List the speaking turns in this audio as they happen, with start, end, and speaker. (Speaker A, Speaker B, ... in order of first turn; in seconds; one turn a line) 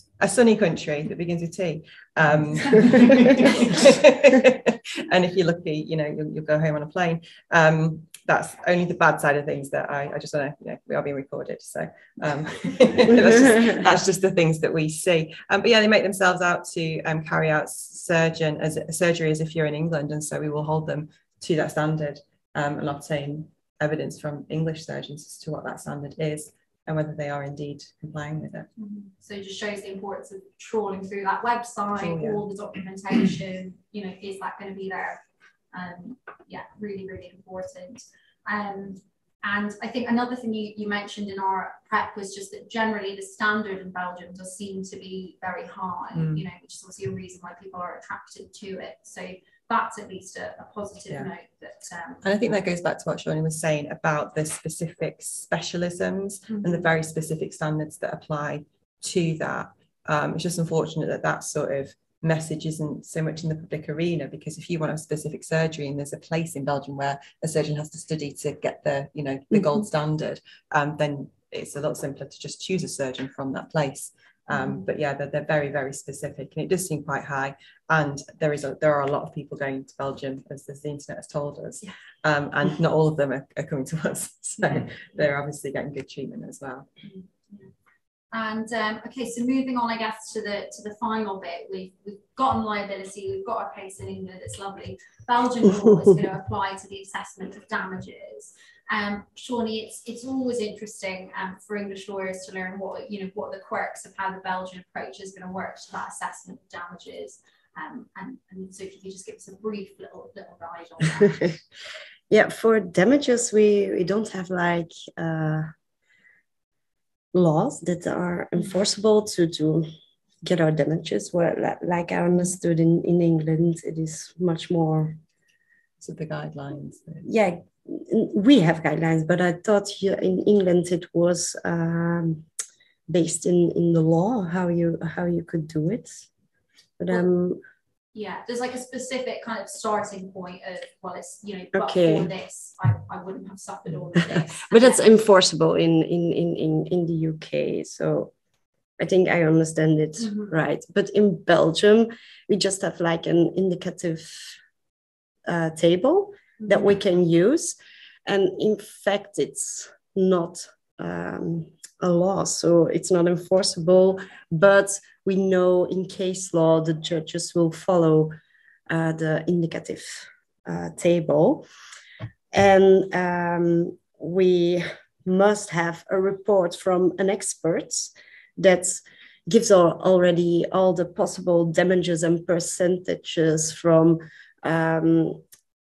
Speaker A: 0.2-28.7
Speaker B: 28.8-35.2
Speaker A: 32.0-32.4
Speaker B: 35.7-52.2
Speaker A: 46.1-46.4
Speaker A: 52.2-86.9
Speaker B: 74.5-74.8
Speaker B: 87.0-87.7
Speaker B: 88.3-111.5
Speaker C: 112.3-115.7
Speaker C: 117.3-119.8
Speaker C: 120.4-125.2
Speaker A: 126.0-127.3
Speaker C: 127.2-132.4
Speaker C: 133.1-136.2
Speaker C: 137.0-137.6
Speaker B: 138.1-145.1
Speaker C: 141.7-142.3
Speaker C: 144.7-148.3
Speaker C: 149.0-154.6
Speaker B: 150.2-150.5
Speaker C: 155.4-168.3
Speaker C: 168.9-171.6
Speaker C: 172.5-185.4